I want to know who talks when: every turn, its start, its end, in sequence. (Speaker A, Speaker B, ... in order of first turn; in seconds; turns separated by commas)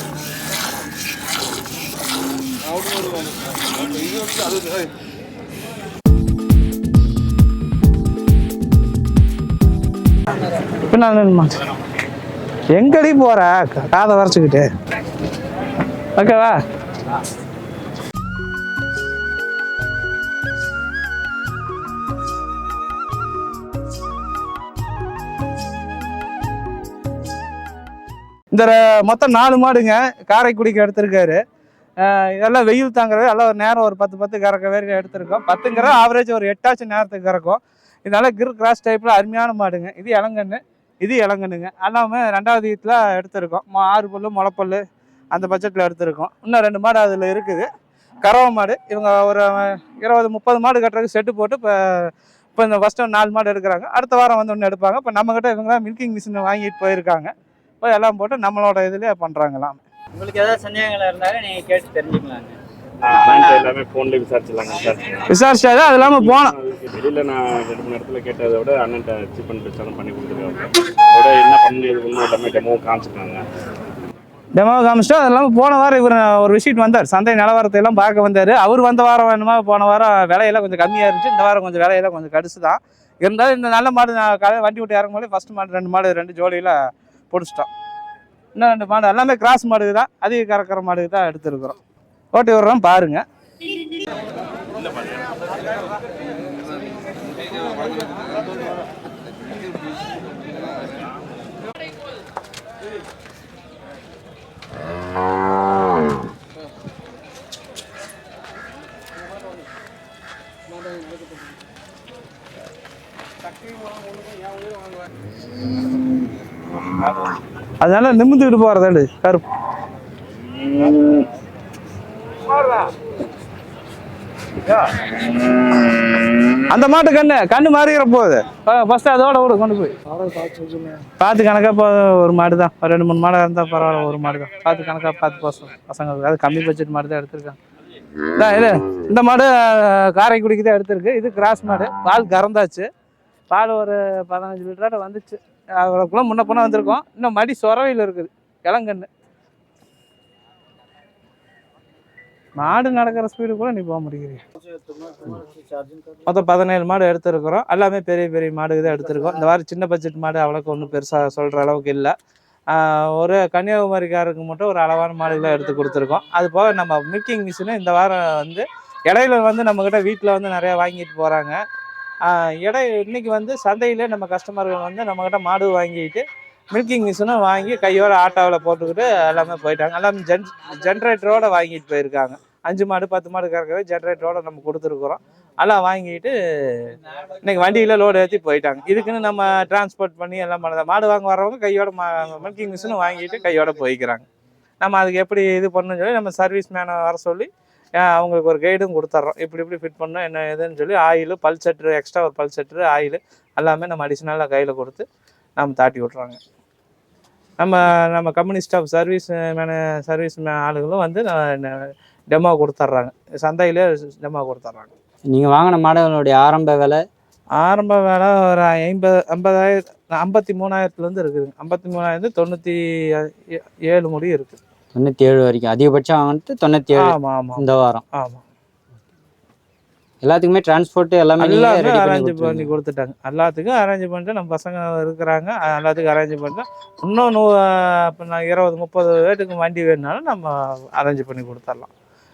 Speaker A: 10.8-11.6, Speaker A: 12.7-14.7, Speaker A: 16.1-16.6, Speaker A: 28.5-31.4, Speaker A: 32.0-47.7, Speaker A: 48.2-59.8, Speaker B: 60.2-62.5, Speaker C: 63.0-65.3, Speaker B: 63.2-63.7, Speaker A: 65.3-66.5, Speaker C: 65.9-73.4, Speaker A: 74.6-86.8, Speaker A: 87.3-87.7, Speaker A: 88.6-91.8, Speaker A: 92.3-93.2, Speaker A: 117.8-119.4, Speaker A: 120.8-121.2, Speaker A: 122.5-122.9, Speaker A: 124.7-125.1, Speaker A: 126.7-137.6, Speaker A: 138.3-142.9, Speaker A: 143.5-149.1, Speaker A: 152.6-154.4, Speaker A: 156.3-162.1, Speaker A: 162.7-171.6, Speaker A: 172.3-194.3, Speaker A: 194.8-205.1, Speaker A: 205.6-206.4, Speaker A: 207.6-214.9, Speaker B: 215.3-217.0, Speaker A: 217.6-223.3, Speaker A: 223.9-224.6, Speaker B: 224.9-228.0, Speaker A: 227.0-227.6, Speaker A: 228.1-228.4, Speaker B: 230.2-232.7, Speaker A: 231.4-241.9